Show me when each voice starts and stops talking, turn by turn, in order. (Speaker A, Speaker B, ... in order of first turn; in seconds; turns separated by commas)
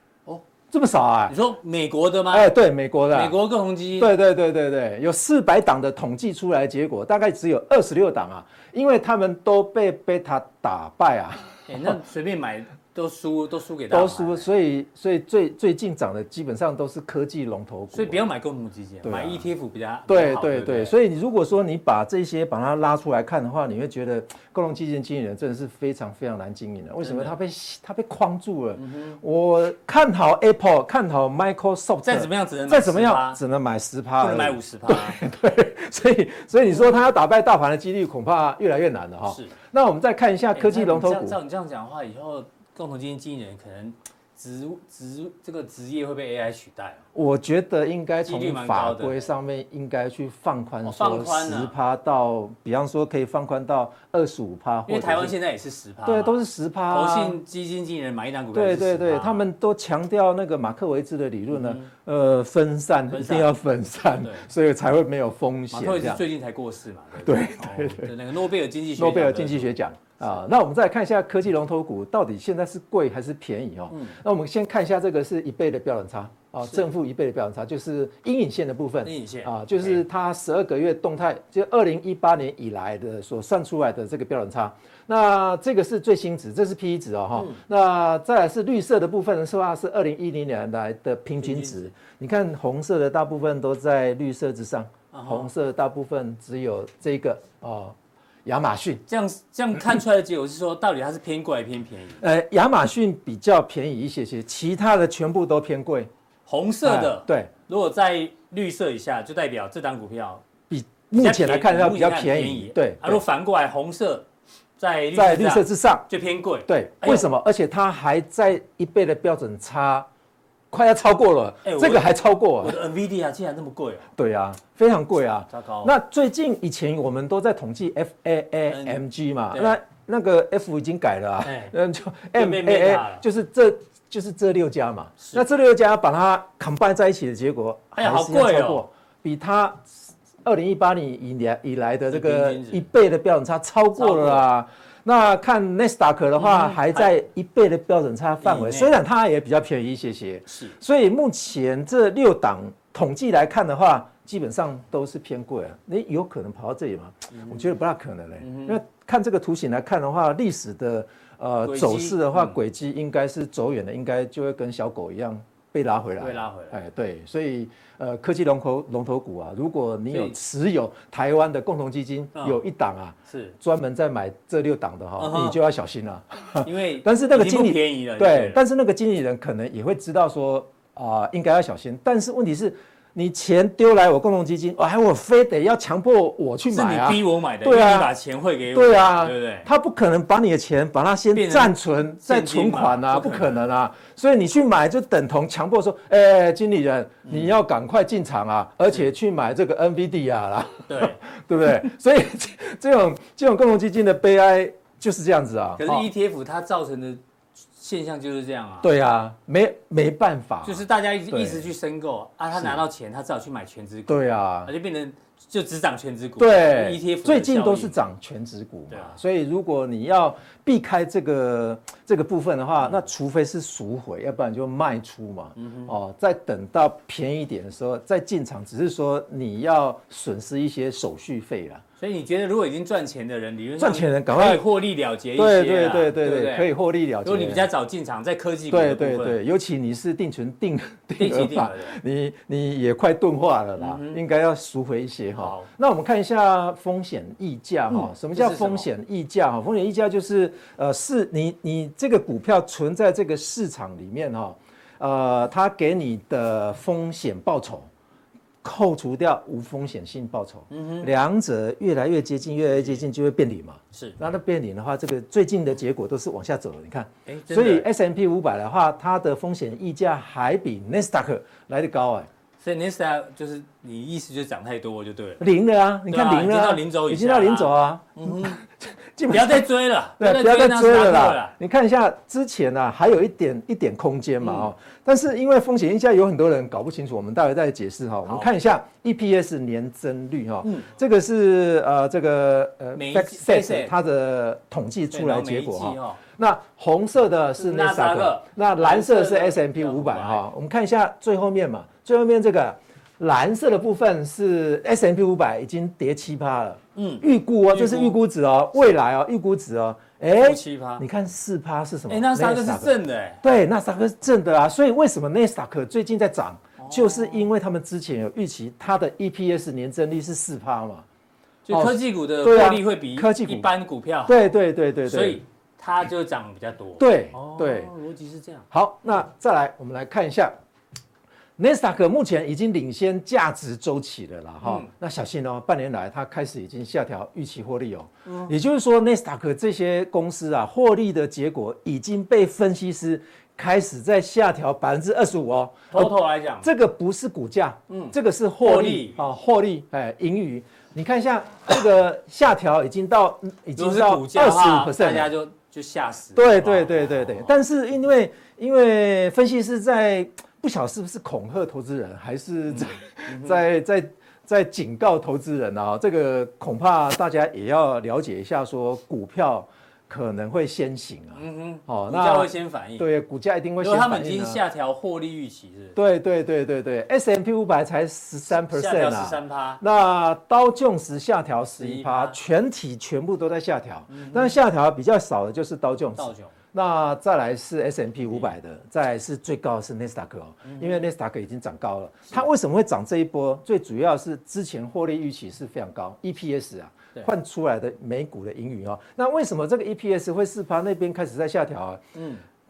Speaker A: 0.7-1.3, Speaker B: 1.3-2.5, Speaker A: 2.3-3.4, Speaker B: 3.1-4.1, Speaker A: 4.0-11.9, Speaker B: 11.7-14.5, Speaker A: 13.9-18.2, Speaker B: 17.9-20.9, Speaker A: 19.0-19.4, Speaker A: 20.1-41.4, Speaker B: 27.0-27.3, Speaker B: 28.8-29.2, Speaker B: 32.0-33.4, Speaker B: 34.2-35.2, Speaker B: 36.7-37.0, Speaker B: 39.3-39.5, Speaker B: 40.5-47.0, Speaker A: 47.1-55.3, Speaker B: 48.2-49.3, Speaker B: 50.8-51.7, Speaker B: 54.9-59.5, Speaker A: 56.0-57.4, Speaker A: 58.5-66.2, Speaker B: 61.5-61.9, Speaker B: 63.1-63.5, Speaker B: 65.7-70.4, Speaker A: 67.2-68.1, Speaker A: 69.0-99.0, Speaker B: 73.9-74.2, Speaker B: 79.0-80.0, Speaker B: 91.4-91.9, Speaker B: 95.1-95.5, Speaker B: 99.1-102.2, Speaker A: 102.2-106.1, Speaker B: 106.5-110.4, Speaker A: 106.8-107.5, Speaker A: 110.7-113.2, Speaker B: 111.1-114.2, Speaker B: 114.8-117.3, Speaker A: 115.1-116.1, Speaker A: 116.7-120.1, Speaker A: 120.7-122.8, Speaker B: 121.6-122.1, Speaker B: 122.6-124.1, Speaker A: 124.2-188.1, Speaker B: 125.5-125.9, Speaker B: 128.7-129.0, Speaker B: 129.5-129.8, Speaker B: 131.4-131.7, Speaker B: 132.3-133.2, Speaker B: 137.9-138.8, Speaker B: 142.1-142.8, Speaker B: 144.0-144.4, Speaker B: 146.4-147.1, Speaker B: 148.4-148.9, Speaker B: 150.5-150.7, Speaker B: 157.3-157.6, Speaker B: 158.4-158.8, Speaker B: 161.6-162.6, Speaker B: 166.2-166.8, Speaker B: 173.3-173.5, Speaker B: 175.2-175.6, Speaker B: 176.6-178.6, Speaker B: 186.7-189.7, Speaker A: 188.7-206.1, Speaker B: 191.3-193.6, Speaker B: 197.2-197.6, Speaker B: 200.9-201.2, Speaker B: 205.8-207.2, Speaker B: 207.8-208.9, Speaker A: 208.8-211.7, Speaker B: 210.6-218.0, Speaker A: 212.5-212.8, Speaker A: 214.1-214.7, Speaker A: 216.4-231.8, Speaker B: 218.9-219.2, Speaker B: 225.6-225.9, Speaker B: 232.0-236.7, Speaker A: 233.8-234.6, Speaker A: 235.3-237.7, Speaker B: 237.2-239.4, Speaker A: 238.7-257.9, Speaker B: 241.2-242.0, Speaker B: 243.8-244.2, Speaker B: 245.4-245.7, Speaker B: 247.9-248.9, Speaker A: 258.6-272.3, Speaker B: 260.7-261.1, Speaker B: 262.7-263.1, Speaker B: 267.3-267.9, Speaker B: 272.6-275.4, Speaker A: 275.4-279.7, Speaker B: 276.1-278.6, Speaker B: 279.3-281.5, Speaker A: 280.2-321.0, Speaker B: 284.4-284.7, Speaker B: 288.2-288.5, Speaker B: 290.6-290.9, Speaker B: 292.9-293.9, Speaker B: 295.1-296.2, Speaker B: 297.5-300.4, Speaker B: 306.9-308.1, Speaker B: 310.4-311.0, Speaker B: 312.1-313.4, Speaker B: 316.8-317.5, Speaker B: 321.7-324.4, Speaker A: 321.7-323.7, Speaker A: 324.2-325.4, Speaker B: 325.1-328.6, Speaker A: 327.0-327.9, Speaker A: 328.7-330.5, Speaker A: 331.6-355.3, Speaker B: 334.6-334.9, Speaker B: 338.2-338.5, Speaker B: 345.9-346.7, Speaker B: 347.9-349.2, Speaker B: 353.8-357.5, Speaker A: 356.4-374.6, Speaker B: 362.7-363.6, Speaker B: 371.4-373.1, Speaker B: 373.8-375.9, Speaker A: 375.9-402.0, Speaker B: 378.5-379.8, Speaker B: 381.8-382.4, Speaker B: 384.1-384.5, Speaker B: 386.2-386.5, Speaker B: 390.6-391.0, Speaker B: 402.1-402.4